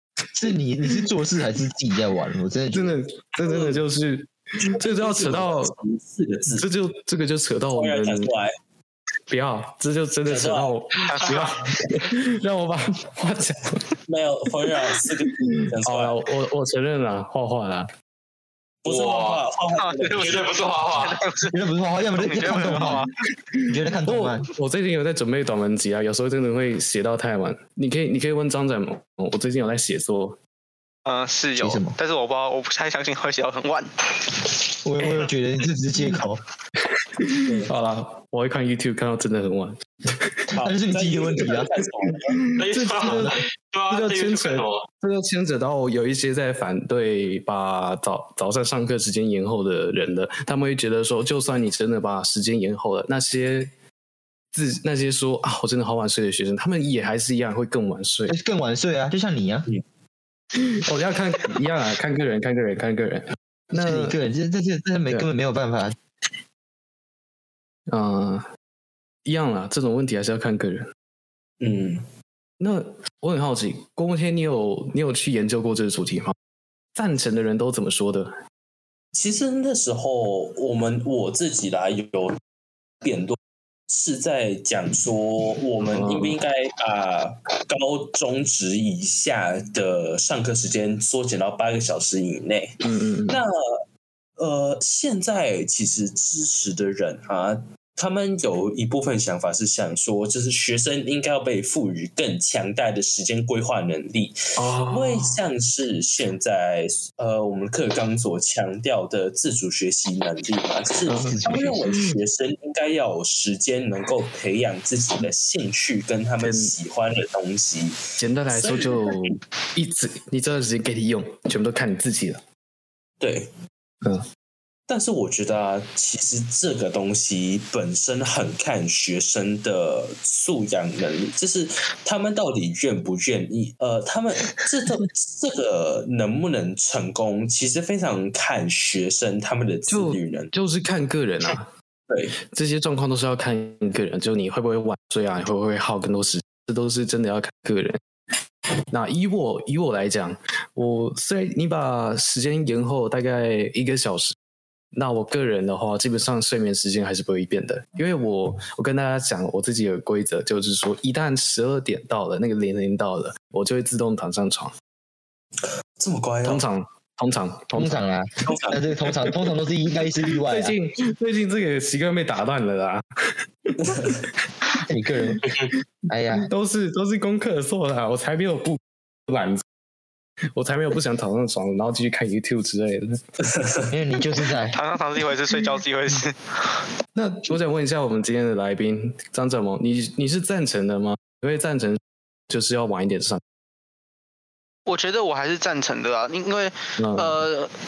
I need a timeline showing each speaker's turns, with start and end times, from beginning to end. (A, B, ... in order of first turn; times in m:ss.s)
0:00.3-0:03.0 A
0:02.7-0:05.7 B
0:03.4-0:03.8 C
0:04.6-0:06.7 C
0:06.5-0:08.3 B
0:07.7-0:08.5 C
0:09.3-0:13.8 B
0:10.3-0:10.7 C
0:11.1-0:11.5 D
0:14.1-0:16.2 C
0:15.5-0:17.9 B
0:18.8-0:20.6 C
0:18.9-0:19.4 E
0:19.8-0:20.4 D
0:20.2-0:21.2 E
0:21.0-0:23.1 D
0:21.5-0:23.0 A
0:23.7-0:24.4 A
0:24.0-0:30.4 B
0:31.0-0:33.9 D
0:31.6-0:32.0 A
0:34.8-0:36.4 A
0:37.2-0:40.4 B
0:37.4-0:37.7 C
0:40.5-0:41.7 A
0:40.5-0:42.5 C
0:42.3-0:43.4 B
0:42.6-0:44.8 E
0:43.0-0:43.3 A
0:43.9-0:53.7 B
0:54.5-0:58.4 B
0:58.3-0:59.7 A
1:00.5-1:04.2 B
1:03.7-1:06.0 A
1:07.9-1:08.4 B
1:09.2-1:10.9 B
1:11.6-1:12.0 C
1:12.6-1:16.3 B
1:16.9-1:18.3 B
1:19.1-1:22.4 C
1:23.0-1:23.4 C
1:23.9-1:33.8 C
1:25.8-1:26.4 B
1:32.8-1:33.4 B
1:34.4-1:59.4 C
1:44.6-1:45.4 B
1:51.1-1:52.2 B
1:51.2-1:51.9 A
1:56.4-1:56.7 B
1:58.2-2:02.4 B
2:03.2-2:03.5 C
2:04.9-2:20.5 C
2:19.9-2:21.7 B
2:22.1-2:22.3 C
2:22.5-2:28.0 B
2:28.9-2:34.4 B
2:34.9-2:44.7 B
2:46.0-2:46.6 C
2:46.4-2:48.0 B
2:47.7-2:50.8 A
2:48.4-2:49.3 C
2:50.4-2:54.2 B
2:53.8-2:54.2 C
2:54.8-2:55.5 A
2:55.4-2:55.7 E
2:56.1-2:56.5 A
2:56.3-2:59.6 B
3:00.5-3:03.2 B
3:03.9-3:04.8 A
3:04.7-3:06.8 D
3:07.1-3:13.4 B
3:14.9-3:17.7 D
3:17.0-3:17.4 B